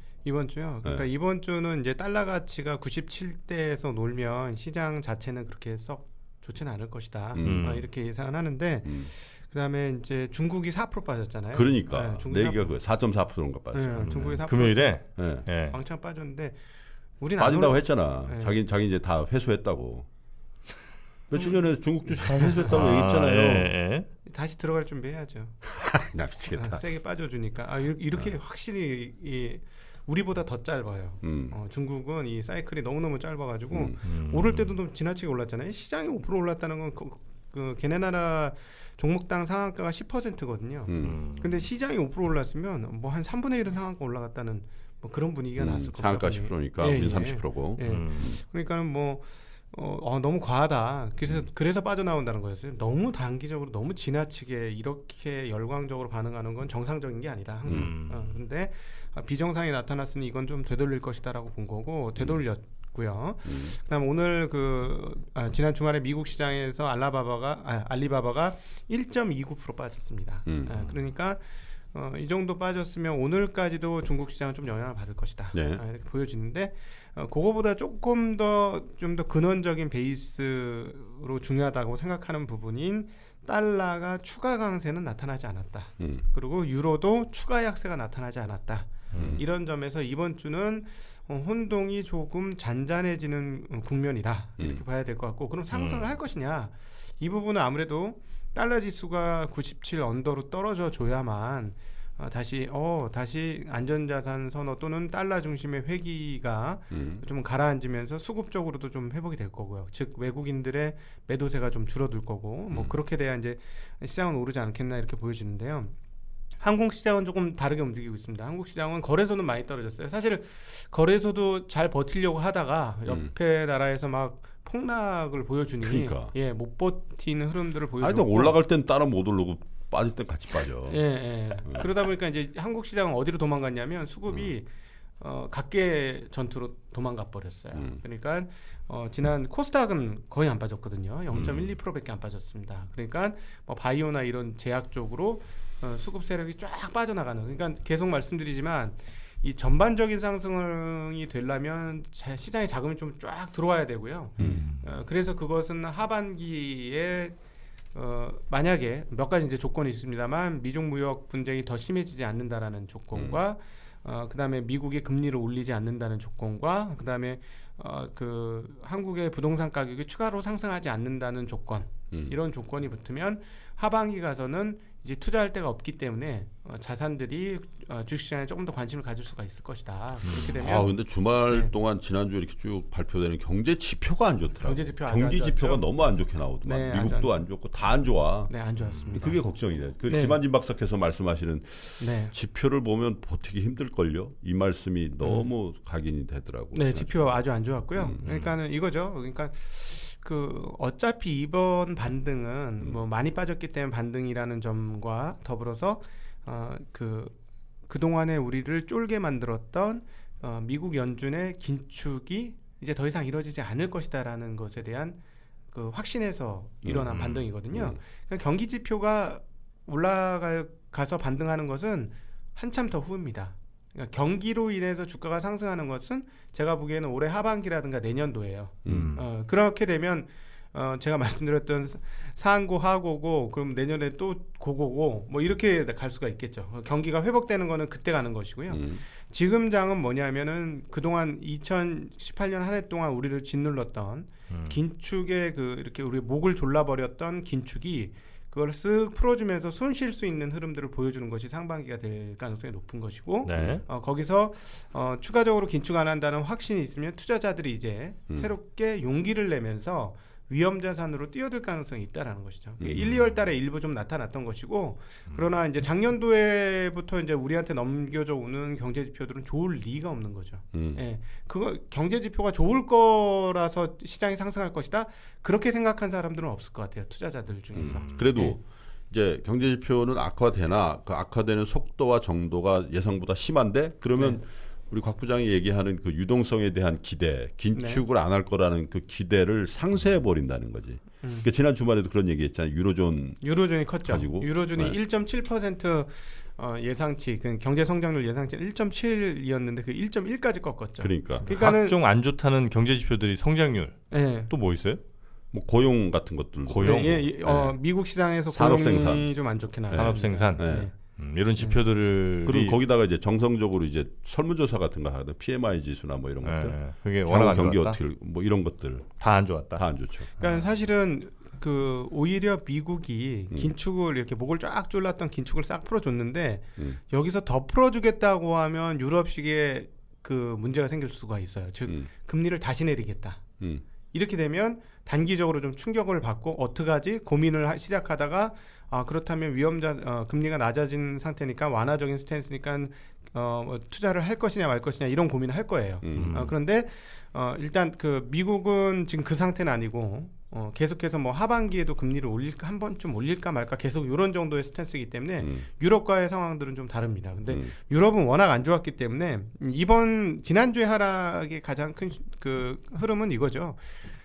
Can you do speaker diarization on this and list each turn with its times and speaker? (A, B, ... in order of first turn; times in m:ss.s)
0:00.2-0:12.7 A
0:07.3-0:07.8 B
0:07.4-0:07.9 C
0:08.9-0:09.1 B
0:11.5-0:14.4 B
0:13.7-0:15.0 A
0:14.0-0:15.8 C
0:15.2-0:15.5 B
0:15.7-0:16.6 A
0:17.2-0:18.6 A
0:17.4-0:20.1 B
0:21.3-0:23.7 B
0:22.4-0:22.7 A
0:22.7-0:24.1 C
0:24.3-0:25.6 A
0:25.6-0:26.8 B
0:26.5-1:11.4 A
0:31.2-0:31.6 B
0:33.7-0:34.0 B
0:34.0-0:34.8 C
0:40.9-0:41.2 B
0:41.0-0:41.6 C
0:45.6-0:48.4 B
0:47.8-0:48.3 C
0:57.7-0:57.9 B
0:57.7-0:58.4 C
1:03.5-1:03.8 B
1:10.5-1:10.9 B
1:11.9-1:56.0 A
1:15.5-1:15.8 B
1:26.0-1:26.2 B
1:29.1-1:29.4 C
1:29.2-1:29.4 B
1:35.7-1:36.1 C
1:46.9-1:47.2 B
1:52.7-1:53.0 B
1:56.6-2:08.6 A
2:05.8-2:06.3 B
2:08.0-2:11.0 B
2:10.9-2:14.7 A
2:15.2-2:37.4 A
2:17.7-2:18.0 B
2:21.3-2:21.7 B
2:34.4-2:34.6 B
2:34.4-2:35.0 C
2:37.9-3:00.9 A
2:43.1-2:43.4 B
2:52.1-2:52.4 B
3:00.3-3:08.5 B
3:04.6-3:05.8 A
3:06.6-3:07.3 A
3:08.5-3:09.4 A
3:08.8-3:09.2 C
3:09.1-3:17.4 B
3:10.1-3:10.4 A
3:12.0-3:12.3 A
3:15.2-3:15.5 A
3:16.7-3:27.3 A
3:18.0-3:18.2 B
3:18.2-3:18.5 C
3:27.9-3:35.2 A
3:35.7-4:38.6 A
3:36.8-3:37.1 B
3:37.1-3:37.4 C
3:37.7-3:38.0 B
3:48.8-3:49.2 B
3:48.9-3:49.2 C
3:58.7-3:59.0 B
4:04.5-4:04.8 C
4:13.5-4:13.8 C
4:13.5-4:13.8 B
4:22.8-4:23.1 B
4:23.0-4:23.3 C
4:30.7-4:31.0 B
4:37.8-4:53.4 B
4:37.8-4:38.3 C
4:47.8-4:48.0 A
4:53.4-5:02.0 A
4:54.0-4:55.0 B
5:01.0-5:01.5 B
5:01.4-5:05.0 C
5:04.1-5:04.5 A
5:05.5-5:07.8 B
5:06.7-5:07.2 C
5:06.8-5:10.9 A
5:08.5-5:09.3 B
5:09.9-5:10.9 B
5:09.9-5:12.8 C
5:12.4-5:19.2 B
5:16.4-5:18.0 C
5:19.2-5:19.9 C
5:19.8-5:20.3 B
5:20.4-5:33.4 A
5:34.1-6:03.8 A
5:46.0-5:46.5 B
5:46.1-5:46.5 C